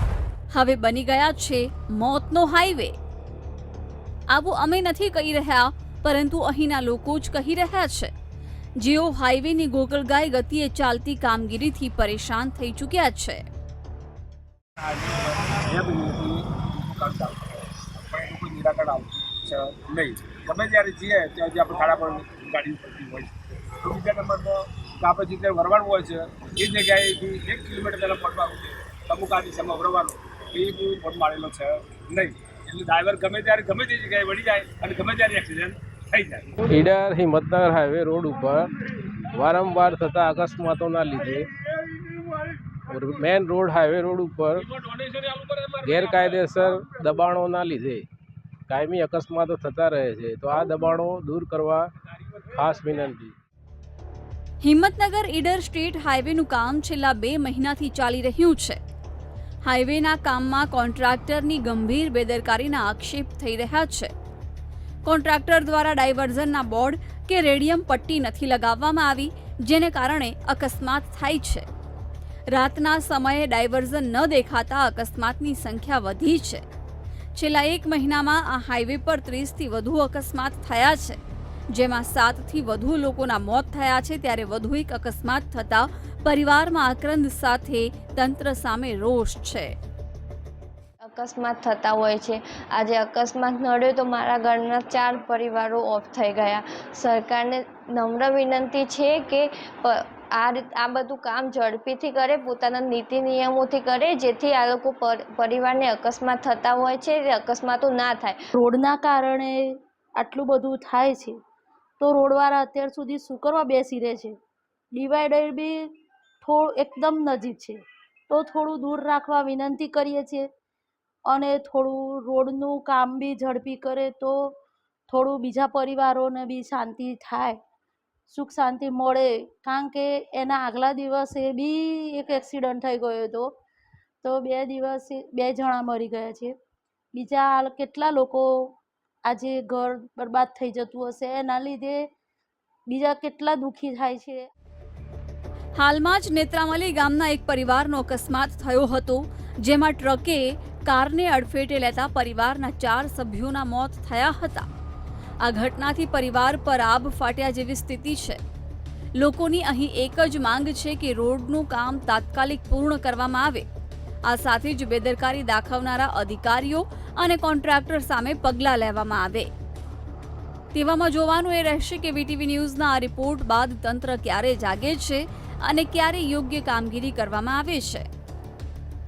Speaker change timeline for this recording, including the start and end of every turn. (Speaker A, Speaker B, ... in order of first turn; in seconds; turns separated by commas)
Speaker A: 0.5-3.0, Speaker A: 4.3-8.1, Speaker A: 8.8-13.4, Speaker B: 14.8-23.3, Speaker B: 23.8-36.6, Speaker C: 36.7-38.7, Speaker C: 39.3-41.5, Speaker C: 42.9-44.7, Speaker B: 45.0-45.8, Speaker C: 45.8-48.0, Speaker C: 48.7-51.9, Speaker C: 52.4-53.4, Speaker A: 54.6-58.8, Speaker A: 59.6-64.1, Speaker A: 65.0-71.7, Speaker A: 72.5-76.6, Speaker A: 77.4-81.2, Speaker A: 81.7-89.8, Speaker D: 91.0-108.4, Speaker E: 108.5-111.4, Speaker E: 112.0-114.4, Speaker E: 114.9-115.9, Speaker E: 116.4-120.5, Speaker E: 121.3-124.5, Speaker E: 125.1-127.6, Speaker E: 128.3-133.5, Speaker E: 134.2-136.6, Speaker E: 137.1-142.1, Speaker E: 142.9-144.5, Speaker A: 145.8-154.7, Speaker A: 155.4-158.4, Speaker A: 159.2-163.7, Speaker A: 164.3-169.5, Speaker A: 170.7-178.1